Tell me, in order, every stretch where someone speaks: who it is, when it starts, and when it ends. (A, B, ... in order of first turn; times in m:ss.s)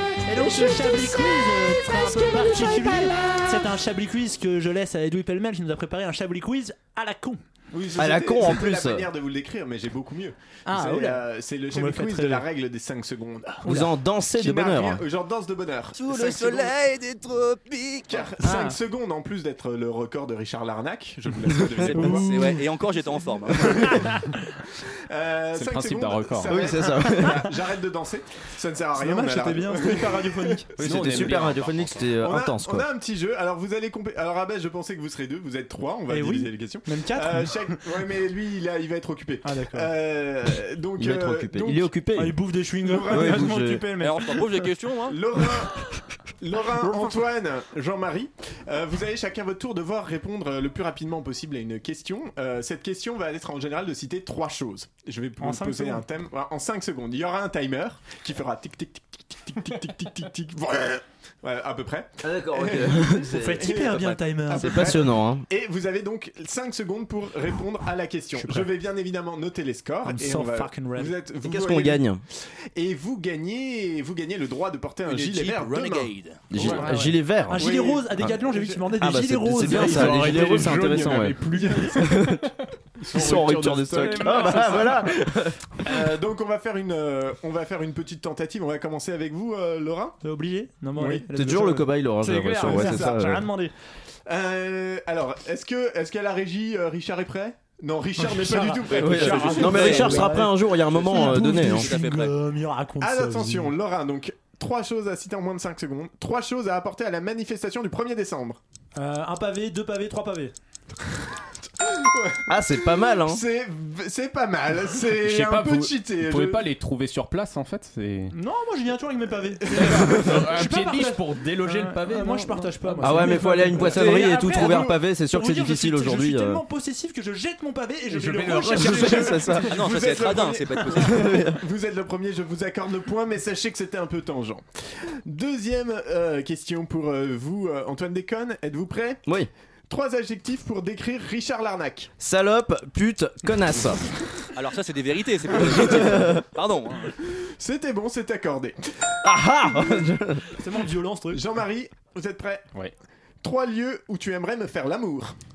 0:00.2-0:07.4 A
0:00.3-0:01.2 B
0:02.0-0:02.7 B
0:07.7-0:16.7 C
0:08.0-0:09.1 B
0:10.7-0:12.4 A
0:13.6-0:15.0 B
0:16.0-0:18.3 D
0:18.1-0:22.6 C
0:18.4-0:18.8 A
0:21.6-0:21.8 B
0:21.8-0:23.9 D
0:22.0-0:22.6 A
0:23.6-0:24.1 C
0:25.1-0:31.5 C
0:25.5-0:26.5 E
0:26.5-0:27.5 B
0:29.0-0:30.7 A
0:30.8-0:32.9 B
0:30.8-0:32.0 E
0:32.0-0:41.9 C
0:36.1-0:37.8 A
0:39.4-0:39.9 A
0:41.0-0:42.4 B
0:42.2-0:44.4 A
0:42.8-0:43.5 C
0:43.1-0:43.9 B
0:44.0-0:45.2 D
0:45.1-0:45.8 C
0:46.4-1:16.9 C
0:46.8-0:47.2 A
0:55.4-0:56.0 A
1:02.2-1:03.8 B
1:03.3-1:05.0 A
1:04.5-1:05.5 B
1:08.4-1:08.7 A
1:10.1-1:11.1 A
1:11.4-1:12.2 B
1:15.1-1:16.5 D
1:16.5-1:17.8 B
1:16.7-1:20.5 A
1:17.5-1:19.0 C
1:19.0-1:22.5 B
1:19.6-1:22.4 E
1:19.9-1:20.7 C
1:21.5-1:22.2 C
1:23.0-1:25.0 E
1:23.1-1:25.6 B
1:24.0-1:25.1 A
1:25.8-1:30.2 C
1:30.2-1:33.7 A
1:31.0-1:31.2 C
1:31.3-1:33.5 B
1:32.6-1:33.2 C
1:34.3-1:40.4 C
1:38.2-1:43.7 A
1:38.9-1:41.9 B
1:39.6-1:40.1 D
1:40.9-1:42.3 D
1:43.0-1:48.6 C
1:49.0-1:50.5 A
1:51.8-1:56.7 C
1:52.5-1:53.4 B
1:55.2-1:58.3 E
1:58.3-2:09.8 A
1:59.7-2:04.1 E
2:03.0-2:06.6 B
2:04.0-2:05.0 C
2:08.4-2:14.7 C
2:08.5-2:09.8 B
2:09.7-2:11.4 D
2:11.0-2:11.6 B
2:15.2-2:19.2 C
2:19.9-2:22.1 C
2:22.2-2:24.0 B
2:24.5-2:27.1 D
2:25.6-2:26.4 B
2:27.6-2:29.2 C
2:29.2-2:30.5 B
2:30.5-2:31.4 A
2:31.3-2:32.7 C
2:33.4-2:35.4 C